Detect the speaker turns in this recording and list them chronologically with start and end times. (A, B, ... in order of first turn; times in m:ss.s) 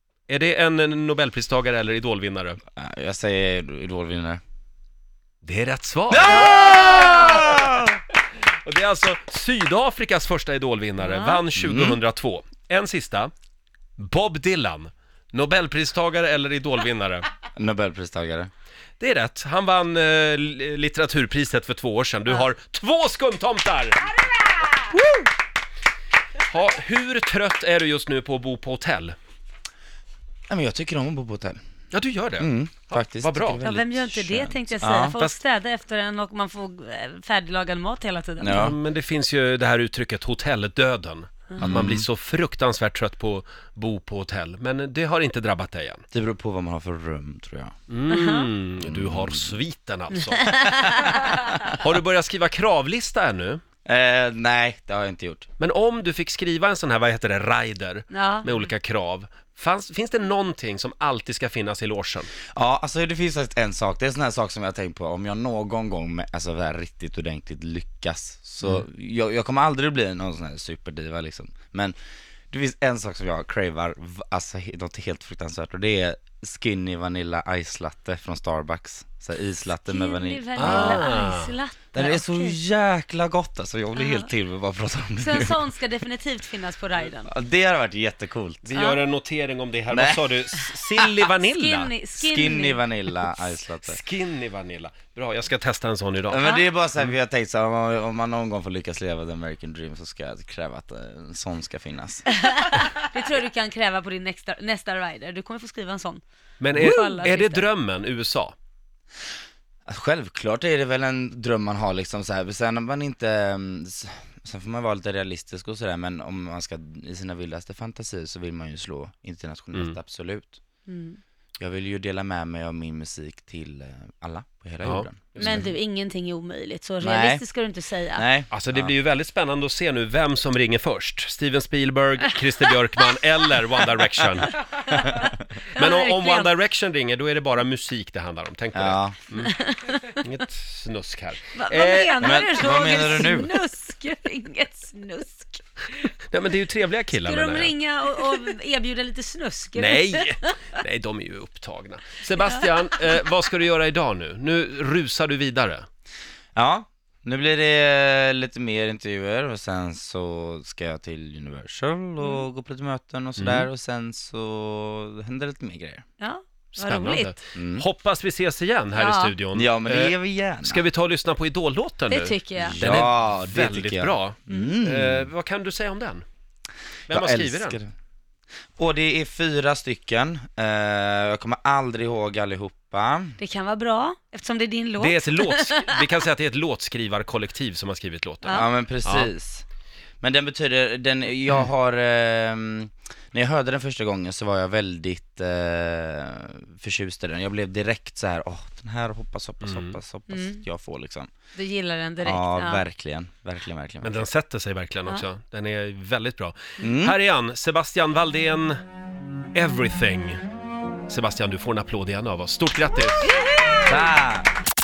0:00.3-0:02.6 A
0:02.8-0:04.4 B
0:05.4-0:06.8 A
0:06.1-0:08.0 B
0:06.3-0:07.5 C
0:08.6-0:13.3 A
0:11.0-0:11.4 C
0:11.6-0:12.0 B
0:14.0-0:17.2 A
0:17.6-0:18.5 B
0:19.0-0:24.0 A
0:26.5-0:29.2 A
0:30.5-0:31.6 B
0:31.9-0:33.6 A
0:32.4-0:35.2 B
0:33.6-0:38.6 C
0:38.4-0:38.8 B
0:38.5-0:46.0 A
0:41.5-0:41.8 C
0:41.6-0:42.0 B
0:46.1-0:47.7 B
0:47.9-0:53.6 A
0:48.1-0:48.5 C
0:48.8-0:49.5 B
0:50.3-0:51.3 C
0:53.8-0:55.5 B
0:55.6-1:02.3 A
0:58.1-0:58.7 C
1:02.5-1:11.9 B
1:12.5-1:21.1 B
1:19.9-1:22.6 C
1:20.6-1:21.5 A
1:21.9-1:25.6 B
1:24.0-1:24.3 C
1:25.2-1:27.3 C
1:27.2-1:28.7 B
1:28.6-1:31.9 A
1:28.7-1:29.0 C
1:29.9-1:30.2 B
1:31.4-1:32.8 C
1:32.2-1:34.0 B
1:33.8-1:36.4 A
1:36.3-1:42.3 B
1:36.4-1:36.6 C
1:42.3-1:46.2 C
1:46.6-1:48.6 A
1:46.7-1:47.6 C
1:49.8-2:00.6 B
2:00.9-2:01.2 C
2:01.6-2:05.7 B
2:04.8-2:05.7 A
2:05.4-2:08.3 C
2:07.0-2:07.4 B
2:08.1-2:08.9 B
2:08.5-2:14.9 A
2:15.0-2:16.5 C
2:15.7-2:22.4 A
2:18.7-2:19.2 B
2:19.4-2:20.1 C
2:21.5-2:26.1 C
2:22.2-2:23.5 B
2:26.3-2:27.7 A
2:27.2-2:30.5 C
2:29.8-2:35.8 A
2:36.5-2:46.0 B
2:43.4-2:43.7 A
2:46.2-2:47.3 C
2:46.7-2:56.2 A
2:47.5-2:47.8 B
2:48.9-2:49.3 C
2:49.5-2:50.8 B
2:52.1-2:52.8 C
2:52.6-2:55.3 B
2:54.5-2:54.7 C
2:57.1-2:57.9 B
2:57.1-2:57.8 A
2:58.8-3:03.4 B
3:03.4-3:06.1 C
3:05.0-3:09.3 A
3:08.5-3:09.6 B
3:10.2-3:21.3 B
3:19.6-3:20.0 A
3:20.3-3:20.6 C
3:21.6-3:22.8 C
3:22.2-3:24.3 B
3:24.0-3:28.8 A
3:26.8-3:27.2 B
3:29.5-3:30.4 A
3:31.1-3:33.3 A
3:33.2-3:33.9 C
3:33.8-3:34.5 B